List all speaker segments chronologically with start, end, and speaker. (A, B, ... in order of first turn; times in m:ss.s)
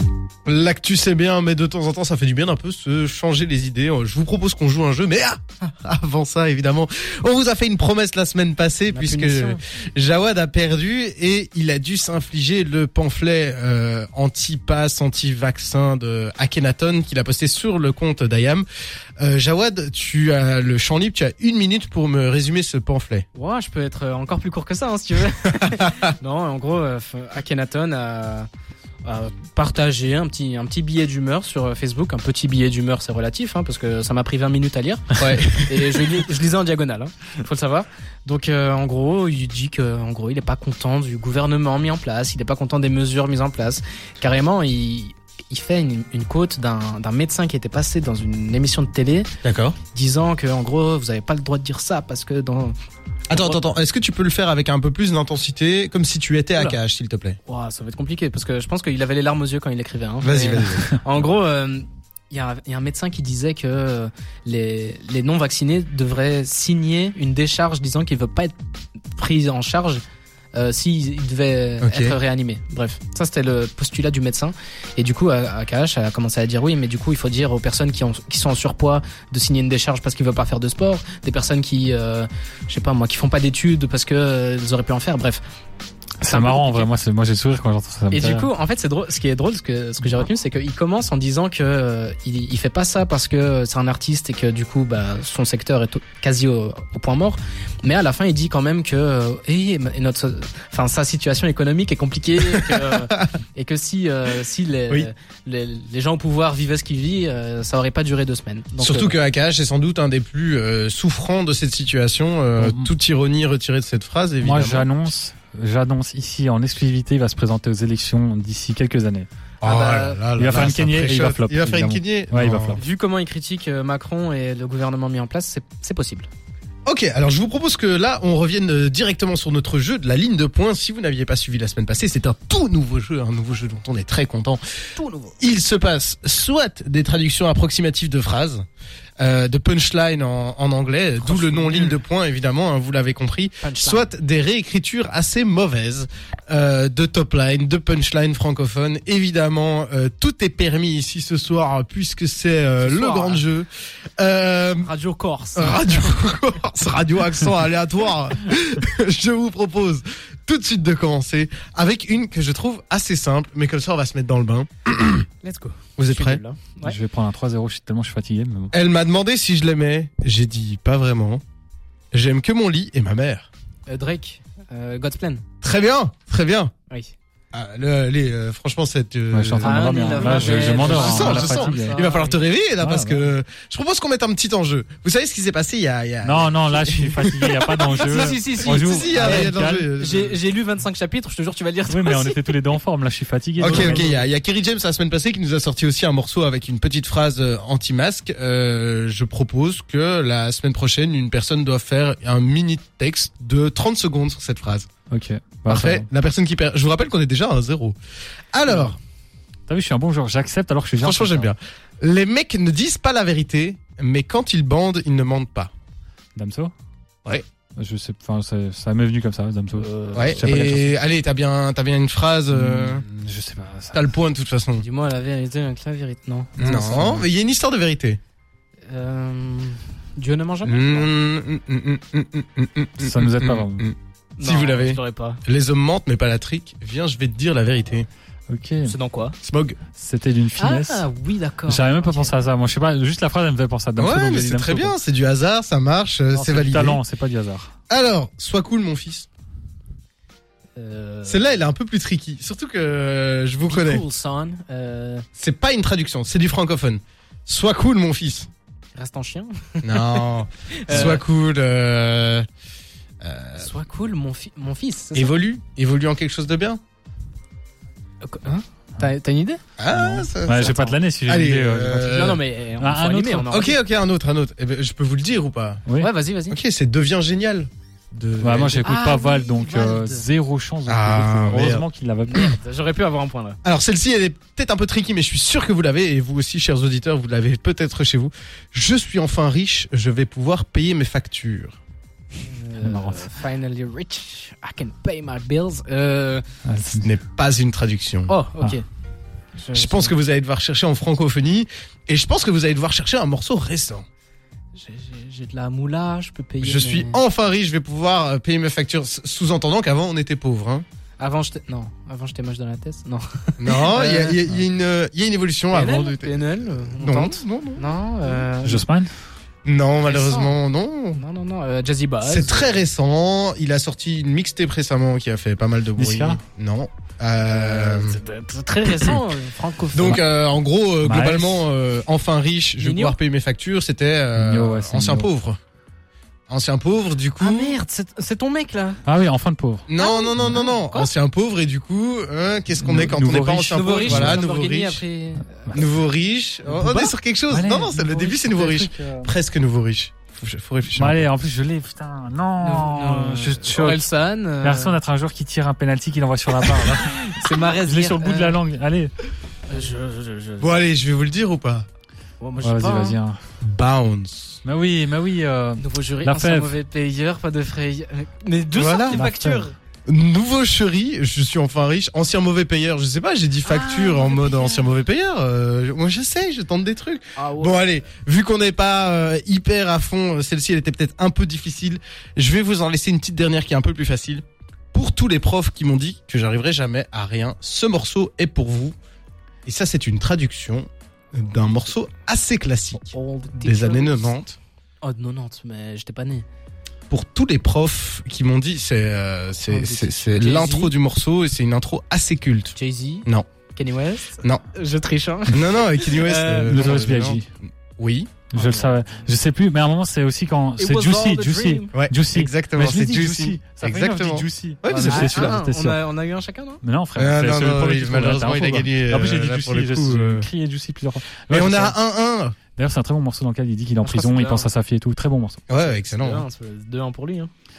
0:00.4-0:18.6 A
0:08.9-0:09.6 B
0:19.2-0:23.2 A
0:23.3-0:28.5 B
0:25.6-0:26.1 A
0:29.0-0:49.3 B
0:35.2-0:35.6 A
0:49.4-0:49.8 A
0:49.9-0:52.7 B
0:53.3-0:57.4 A
0:57.5-1:08.5 B
1:00.2-1:00.9 A
1:09.2-1:10.0 B
1:10.5-1:25.4 B
1:11.8-1:12.2 A
1:26.2-1:28.5 C
1:26.2-1:26.9 B
1:28.1-1:49.2 B
1:42.5-1:43.3 A
1:48.8-1:54.9 A
1:52.6-1:52.9 C
1:54.4-1:59.3 C
1:59.6-2:02.8 A
1:59.6-2:00.2 B
2:00.4-2:02.8 C
2:02.8-2:06.3 B
2:06.8-2:14.6 A
2:15.0-2:15.4 B
2:15.4-2:18.6 A
2:19.2-2:34.9 A
2:21.2-2:22.0 B
2:23.6-2:24.1 B
2:32.8-2:33.4 B
2:34.8-2:36.1 B
2:35.5-2:45.3 A
2:45.4-2:47.0 B
2:46.0-2:46.4 A
2:46.8-2:48.7 C
2:48.7-2:51.4 A
2:52.1-2:53.5 A
2:53.9-2:55.4 B
2:55.6-2:56.7 A
2:57.5-3:10.4 A
2:59.3-3:02.0 C
2:59.6-3:02.4 B
3:02.8-3:03.3 C
3:06.2-3:09.9 C
3:07.8-3:12.6 B
3:11.9-3:14.0 C
3:13.6-3:24.9 A
3:13.6-3:14.2 B
3:25.1-3:26.1 C
3:25.7-3:28.0 A
3:28.5-3:29.0 A
3:29.7-3:31.5 C
3:31.0-3:35.7 A
3:36.4-3:36.7 C
3:37.8-3:39.9 C
3:39.8-3:40.5 B
3:40.1-3:43.0 A
3:40.4-3:40.9 C
3:42.5-3:44.0 C
3:43.9-3:44.8 A
3:44.8-3:47.2 B
3:46.6-3:48.2 A
3:48.9-3:51.1 B
3:50.6-3:58.1 A
3:53.0-3:53.9 C
3:54.4-3:55.4 B
3:58.5-3:58.9 C
3:58.8-3:59.4 B
3:59.4-3:59.8 A
4:00.0-4:01.0 C
4:00.6-4:02.4 B
4:01.7-4:04.9 C
4:04.0-4:07.0 A
4:06.3-4:07.7 C
4:07.9-4:09.3 A
4:10.8-4:11.5 B
4:11.2-4:14.0 A
4:13.7-4:15.2 B
4:15.4-4:18.5 A
4:19.0-4:21.2 B
4:19.8-4:22.5 A
4:20.9-4:21.2 C
4:23.2-4:23.7 A
4:23.6-4:25.4 B
4:25.1-4:26.8 A
4:28.2-4:30.8 B
4:29.8-4:32.4 A
4:30.4-4:32.2 C
4:32.0-4:33.8 B
4:32.8-4:33.5 C
4:33.5-4:35.8 A
4:36.0-4:36.6 B
4:36.5-4:38.9 A
4:38.4-4:42.5 C
4:38.5-4:40.2 B
4:40.9-4:41.8 A
4:42.2-4:43.6 B
4:43.6-4:51.8 A
4:52.4-4:56.4 B
4:52.8-4:53.3 C
4:56.6-4:57.1 C
4:57.0-4:58.3 A
4:58.3-4:58.8 B
4:59.6-5:00.1 B
4:59.7-5:04.1 A
5:04.8-5:07.2 B
5:06.6-5:10.8 A
5:11.2-5:14.4 B
5:13.6-5:17.9 A
5:15.7-5:18.8 B
5:18.6-5:19.1 C
5:19.6-5:21.2 A
5:20.0-5:20.5 B
5:21.1-5:22.8 B
5:22.2-5:28.2 A
5:26.0-5:26.4 C
5:27.4-5:30.2 B
5:29.9-5:35.6 A
5:31.0-5:31.6 C
5:32.8-5:33.2 B
5:34.3-5:35.3 C
5:36.5-5:37.7 A
5:37.4-5:39.0 B
5:39.0-5:39.9 C
5:39.9-5:45.0 A
5:40.0-5:41.1 B
5:42.8-5:44.4 C
5:43.7-5:45.8 B
5:45.7-5:51.3 A
5:46.7-5:47.1 B
5:47.5-5:49.3 C
5:50.9-5:54.0 C
5:52.6-5:55.0 B
5:54.6-5:59.1 C
5:56.8-5:58.6 B
5:59.7-6:00.8 B
6:00.6-6:01.8 A
6:02.4-6:03.2 B
6:02.6-6:03.4 C
6:03.6-6:04.6 A
6:04.6-6:06.7 C
6:05.8-6:09.7 B
6:08.7-6:09.2 A
6:09.1-6:09.6 C
6:10.0-6:29.0 A
6:13.6-6:15.0 B
6:17.4-6:17.8 B
6:29.6-6:34.6 A
6:33.0-6:34.3 B
6:35.0-6:36.4 B
6:37.1-6:43.5 A
6:39.7-6:40.9 B
6:42.8-6:46.8 B
6:45.5-6:48.3 A
6:46.7-6:47.5 C
6:48.5-6:56.0 C
6:48.6-6:49.0 B
6:50.8-6:51.9 B
6:51.9-6:55.6 A
6:55.0-6:56.8 B
6:56.8-7:02.0 C
6:57.2-7:00.5 A
7:01.5-7:02.6 A
7:02.8-7:05.6 C
7:04.0-7:04.7 B
7:05.7-7:06.4 A
7:05.8-7:07.5 B